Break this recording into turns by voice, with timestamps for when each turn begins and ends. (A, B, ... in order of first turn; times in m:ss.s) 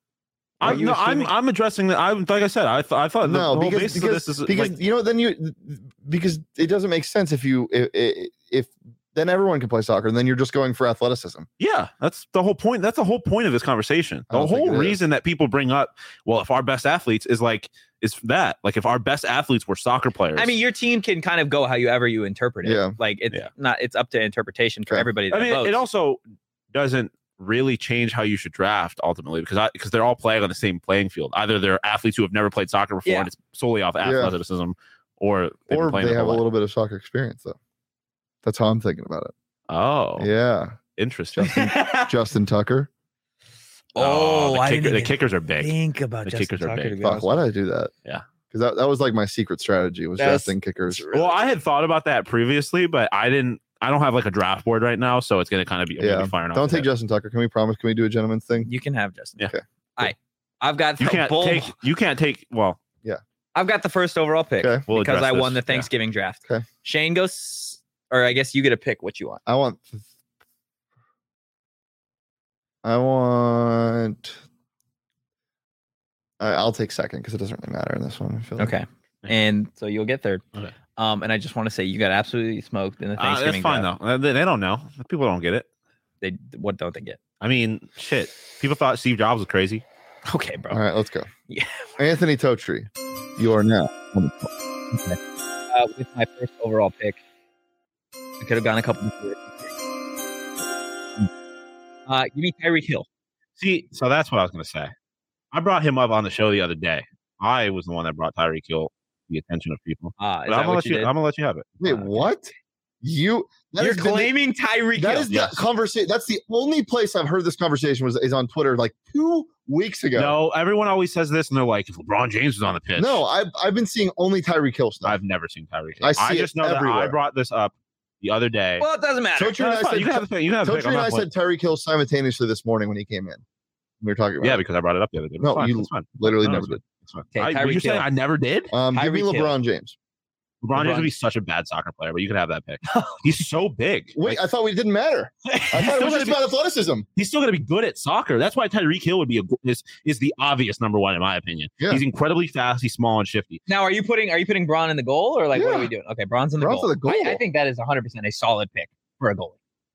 0:00.6-0:04.7 A
0:00.6-0:01.3 B
0:03.2-0:11.5 C
0:11.6-0:20.6 A
0:14.3-0:15.0 C
0:20.4-0:25.8 B
0:22.6-0:23.0 C
0:25.3-0:26.2 A
0:26.7-0:36.4 A
0:34.0-0:34.3 C
0:35.7-0:37.6 C
0:38.4-0:39.3 C
0:39.7-0:40.3 A
0:40.2-0:40.8 C
0:41.0-0:41.6 A
0:41.3-0:42.9 C
0:41.4-0:42.1 B
0:43.9-0:47.4 B
0:44.0-0:45.7 A
0:46.2-0:47.0 A
0:47.0-0:47.9 C
0:48.5-0:51.0 C
0:50.2-0:51.4 B
0:51.1-0:56.9 A
0:56.0-0:58.7 C
0:58.6-1:01.7 B
1:01.0-1:02.8 A
1:03.5-1:09.4 B
1:04.9-1:05.9 A
1:09.4-1:10.0 C
1:12.8-1:14.4 C
1:16.4-1:18.7 C
1:18.6-1:20.4 B
1:21.0-1:23.9 B
1:23.2-1:25.7 A
1:26.2-1:27.2 B
1:27.4-1:29.8 A
1:30.2-1:30.8 B
1:30.7-1:31.3 C
1:31.5-1:32.0 B
1:32.0-1:35.1 C
1:35.7-1:37.2 B
1:38.4-1:39.7 B
1:42.1-1:43.0 B
1:43.6-1:44.9 A
1:45.5-1:51.9 A
1:50.2-1:51.1 B
1:51.8-1:54.3 C
1:53.8-1:55.3 B
1:55.0-2:00.4 C
1:55.3-1:55.6 A
2:00.1-2:03.2 A
2:03.0-2:05.2 C
2:05.0-2:08.8 A
2:06.0-2:07.2 C
2:08.8-2:09.6 B
2:09.4-2:13.4 C
2:09.6-2:11.3 A
2:14.0-2:14.6 C
2:14.4-2:18.7 A
2:15.4-2:16.8 C
2:17.3-2:18.1 B
2:18.7-2:20.0 C
2:18.9-2:19.5 B
2:20.6-2:24.4 A
2:20.7-2:21.1 B
2:22.9-2:23.2 B
2:24.1-2:27.1 C
2:25.5-2:25.8 B
2:25.8-2:26.4 A
2:27.2-2:33.6 A
2:33.7-2:39.6 B
2:35.5-2:35.9 C
2:36.6-2:37.4 C